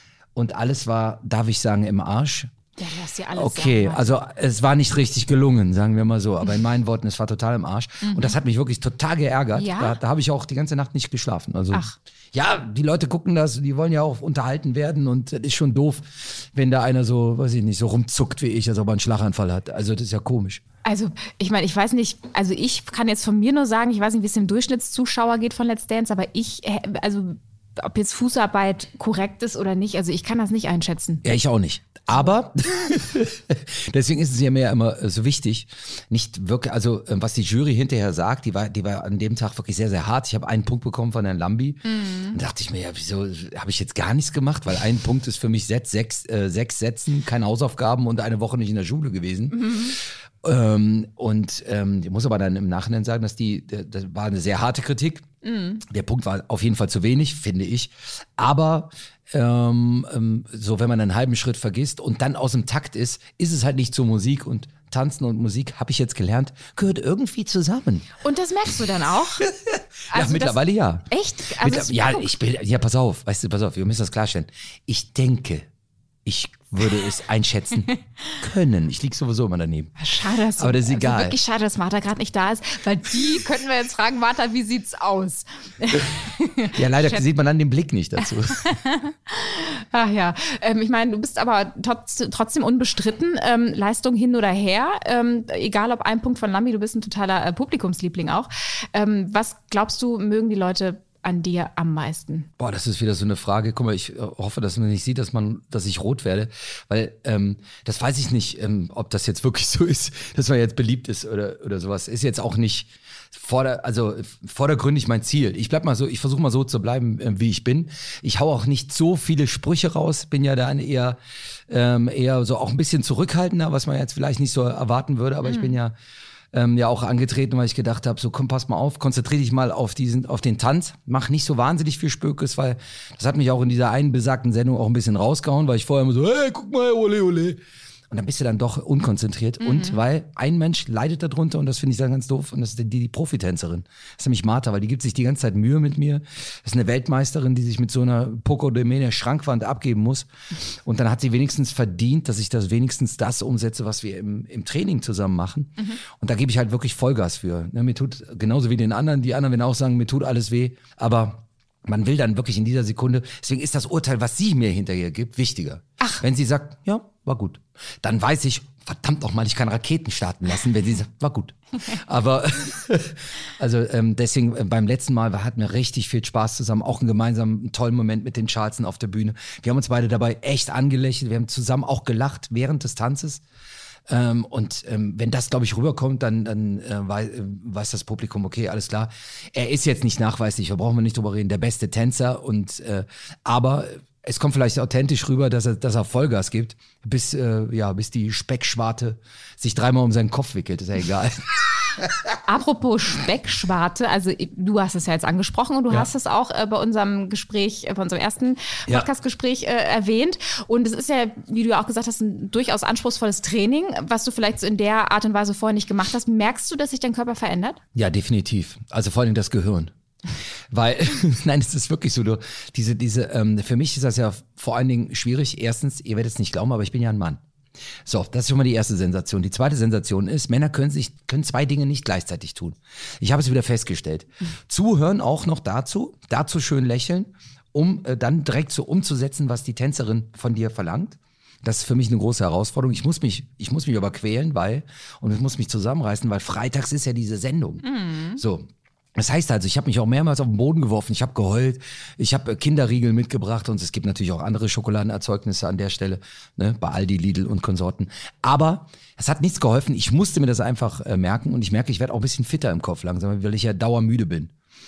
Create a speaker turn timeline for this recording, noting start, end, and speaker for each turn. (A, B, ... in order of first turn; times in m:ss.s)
0:00.3-0:02.5 A
0:02.8-0:04.2 B
0:03.3-0:20.6 A
0:08.0-0:08.4 B
0:09.5-0:10.0 B
0:20.8-0:31.2 B
0:31.2-0:55.2 A
0:41.8-0:42.4 B
0:49.5-0:50.0 B
0:55.4-0:55.8 B
0:55.8-1:08.2 A
1:08.2-1:09.5 B
1:09.4-1:15.6 A
1:10.1-1:12.3 B
1:16.2-1:20.0 A
1:20.0-1:27.2 B
1:20.5-1:21.4 A
1:26.7-1:28.6 A
1:28.6-1:42.5 B
1:42.6-2:05.9 A
2:05.4-2:05.7 B
2:06.5-2:17.6 A
2:18.1-3:03.4 A
2:19.6-2:20.0 B
3:04.1-3:22.0 A
3:22.4-3:37.8 B
3:37.9-3:39.9 A
3:40.7-3:47.4 A
3:48.0-4:07.8 A
4:07.8-4:08.4 B
4:08.4-4:24.5 A